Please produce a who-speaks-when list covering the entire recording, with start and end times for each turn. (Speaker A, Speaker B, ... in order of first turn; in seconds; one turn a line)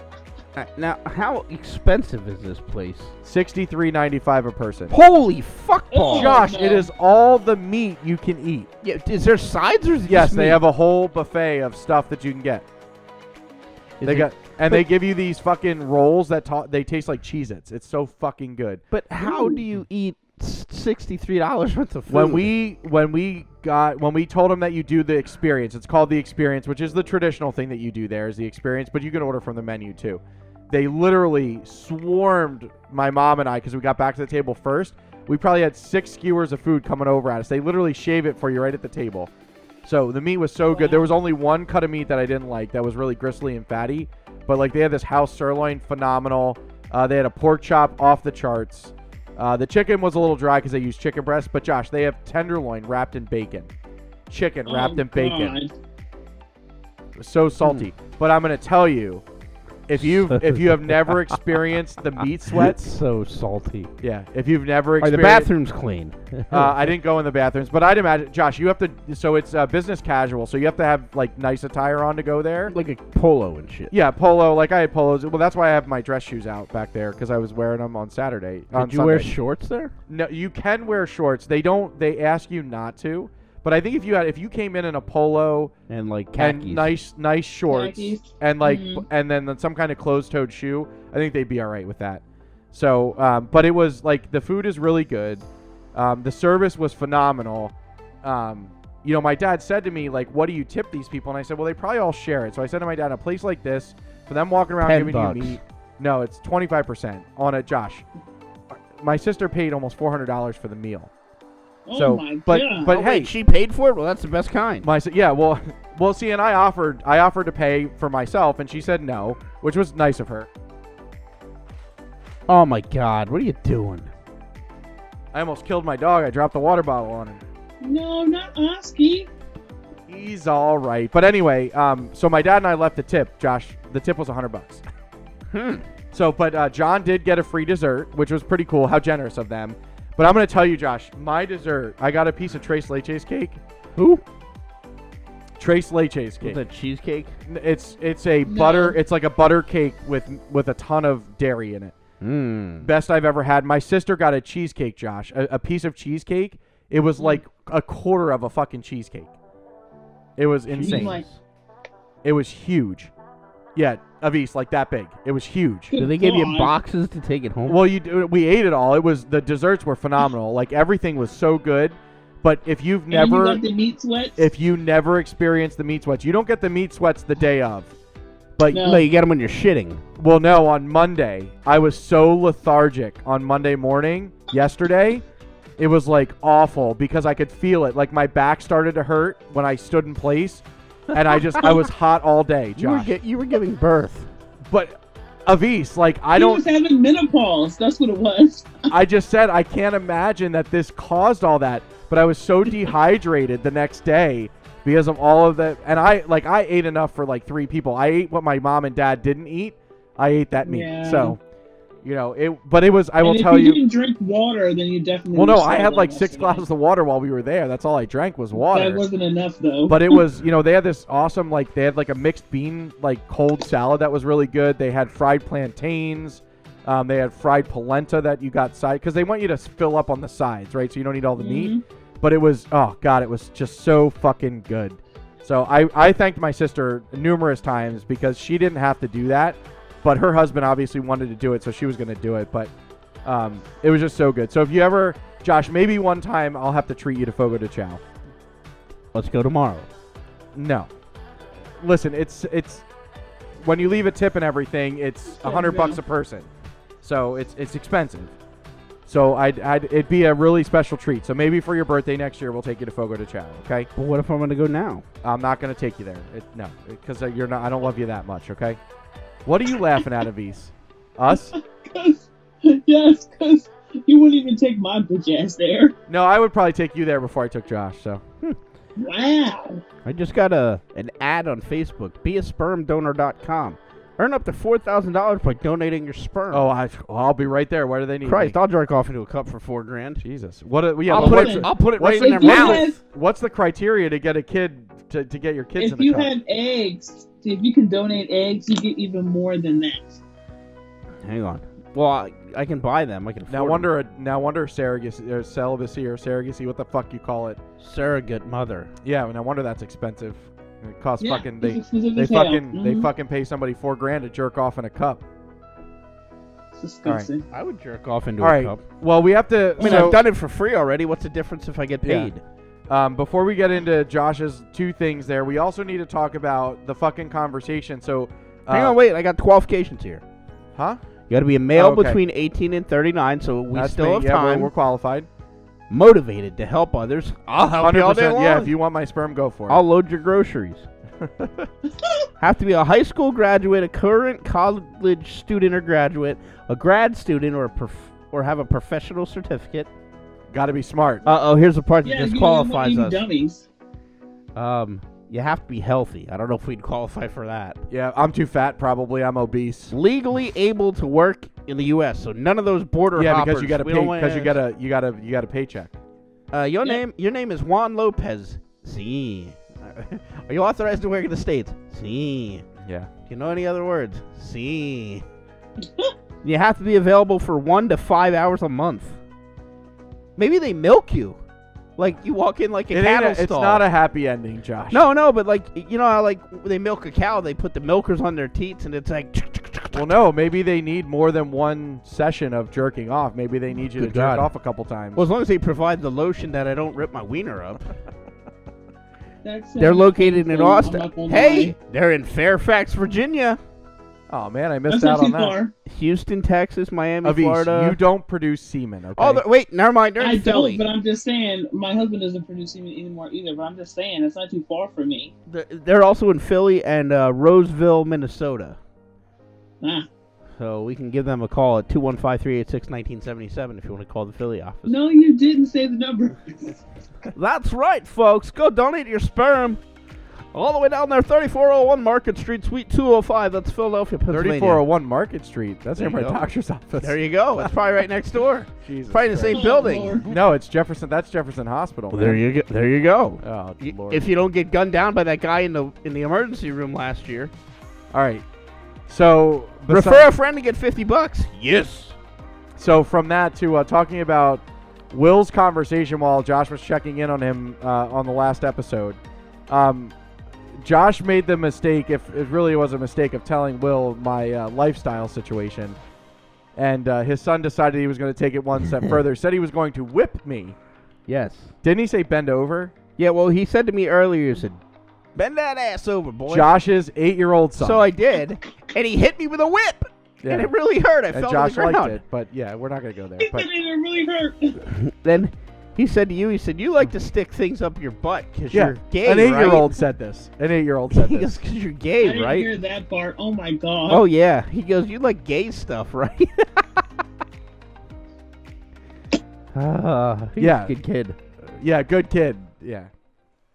Speaker A: 0.5-3.1
Speaker B: 3.2-4.9
Speaker A: 4.9-6.4
Speaker C: 5.9-6.9
Speaker B: 6.1-8.7
Speaker A: 8.8-10.6
Speaker B: 10.1-12.7
Speaker A: 14.0-14.8
Speaker B: 14.0-18.8
Speaker A: 18.9-22.5
Speaker B: 22.1-39.3
Speaker B: 39.8-53.7
Speaker C: 40.7-41.1
Speaker B: 54.3-55.6
Speaker C: 54.6-55.7
Speaker B: 57.2-59.2
Speaker B: 59.9-62.9
Speaker A: 60.0-61.3
Speaker A: 62.5-63.9
Speaker B: 64.0-65.5
Speaker A: 65.0-66.8
Speaker B: 66.5-72.7
Speaker A: 72.7-73.9
Speaker B: 73.9-79.3
Speaker A: 78.7-79.9
Speaker B: 80.1-85.7
Speaker A: 85.9-86.9
Speaker B: 86.4-108.0
Speaker C: 87.7-89.0
Speaker A: 104.8-105.6
Speaker B: 108.7-111.1
Speaker C: 111.8-112.9
Speaker B: 111.9-113.3
Speaker A: 112.9-114.9
Speaker B: 114.8-120.5
Speaker A: 122.5-124.1
Speaker B: 125.3-127.4
Speaker C: 127.8-129.3
Speaker B: 130.1-134.8
Speaker A: 135.5-135.8
Speaker B: 136.1-143.6
Speaker A: 144.0-144.2
Speaker B: 145.6-146.6
Speaker A: 146.4-147.3
Speaker B: 147.5-151.9
Speaker C: 148.4-149.0
Speaker A: 152.2-152.9
Speaker B: 152.8-159.3
Speaker B: 160.4-161.2
Speaker A: 160.7-161.4
Speaker C: 160.8-161.2
Speaker B: 162.2-163.1
Speaker B: 163.8-165.9
Speaker C: 165.9-166.7
Speaker A: 166.0-167.8
Speaker B: 167.7-173.6
Speaker C: 173.1-174.4
Speaker B: 174.4-177.9
Speaker B: 178.6-178.9
Speaker C: 178.7-179.1
Speaker A: 178.8-180.0
Speaker B: 180.2-185.2
Speaker B: 185.8-193.1
Speaker A: 191.1-191.7
Speaker A: 192.8-194.3
Speaker B: 194.7-196.6
Speaker C: 196.3-198.9
Speaker B: 198.9-211.4
Speaker C: 210.6-211.4
Speaker B: 212.0-213.8
Speaker C: 213.2-216.6
Speaker B: 215.3-219.1
Speaker C: 218.5-220.2
Speaker B: 219.9-242.7
Speaker C: 231.4-231.8
Speaker B: 243.2-248.0
Speaker A: 249.1-249.9
Speaker B: 250.5-250.9
Speaker B: 251.8-252.8
Speaker B: 253.6-256.5
Speaker C: 255.4-256.0
Speaker B: 257.0-258.3
Speaker B: 259.1-263.9
Speaker A: 263.9-265.0
Speaker B: 265.2-268.8
Speaker B: 269.4-271.5
Speaker C: 271.3-275.9
Speaker B: 276.1-278.2
Speaker C: 279.0-279.8
Speaker A: 280.0-286.7
Speaker B: 286.5-288.6
Speaker A: 288.2-290.2
Speaker B: 290.2-296.3
Speaker A: 291.1-292.9
Speaker C: 291.1-293.0
Speaker C: 295.8-300.2
Speaker A: 301.2-303.9
Speaker B: 303.5-307.6
Speaker A: 307.8-308.9
Speaker B: 309.0-315.2
Speaker C: 311.2-313.1
Speaker C: 316.8-317.4
Speaker A: 317.5-318.8
Speaker B: 318.4-320.2
Speaker C: 319.8-320.1
Speaker A: 319.8-322.4
Speaker B: 322.0-322.3
Speaker B: 322.9-329.0
Speaker A: 328.7-330.2
Speaker B: 330.7-331.0
Speaker A: 331.3-334.7
Speaker B: 331.7-332.2
Speaker B: 333.7-335.3
Speaker A: 335.9-338.7
Speaker B: 337.8-339.8
Speaker A: 339.7-340.9
Speaker B: 341.2-341.7
Speaker A: 342.4-349.9
Speaker B: 350.5-351.3
Speaker A: 351.2-353.2
Speaker C: 352.0-353.6
Speaker A: 354.5-357.8
Speaker B: 357.9-359.9
Speaker A: 359.9-364.6
Speaker B: 363.1-365.9
Speaker A: 366.5-372.6
Speaker B: 372.8-373.1
Speaker A: 373.3-375.2
Speaker A: 376.4-379.2
Speaker A: 380.4-381.4
Speaker A: 382.0-383.8
Speaker B: 382.9-385.1
Speaker A: 384.9-390.1
Speaker B: 389.9-395.2
Speaker A: 393.9-394.5
Speaker A: 395.1-397.8
Speaker C: 399.4-401.7
Speaker A: 399.8-403.6
Speaker B: 404.3-405.6
Speaker C: 404.9-405.7
Speaker A: 405.9-408.0
Speaker B: 407.2-409.4
Speaker A: 409.2-410.8
Speaker C: 410.2-415.3
Speaker A: 415.5-418.8
Speaker C: 419.8-420.1
Speaker A: 420.6-424.9
Speaker C: 424.9-426.8
Speaker A: 427.3-429.8
Speaker A: 430.5-434.8
Speaker B: 434.3-437.7
Speaker A: 436.0-436.4
Speaker A: 437.0-440.2
Speaker B: 438.8-439.6
Speaker C: 439.5-440.3
Speaker B: 440.2-442.4
Speaker A: 442.1-447.5
Speaker B: 443.4-444.3
Speaker B: 448.1-448.4
Speaker B: 449.1-450.3
Speaker A: 449.9-452.1
Speaker B: 452.8-460.1
Speaker B: 460.8-466.0
Speaker B: 466.8-470.8
Speaker A: 471.3-471.7
Speaker B: 471.8-472.9
Speaker A: 473.2-474.8
Speaker A: 475.4-476.7
Speaker B: 476.5-478.1
Speaker A: 477.8-482.2
Speaker B: 480.4-480.7
Speaker B: 481.3-483.7
Speaker C: 483.4-484.8
Speaker A: 484.9-489.9
Speaker B: 488.7-491.5
Speaker A: 491.1-492.7
Speaker C: 492.2-494.2
Speaker A: 494.1-497.0
Speaker A: 499.7-501.4
Speaker B: 500.6-500.9
Speaker B: 501.8-503.1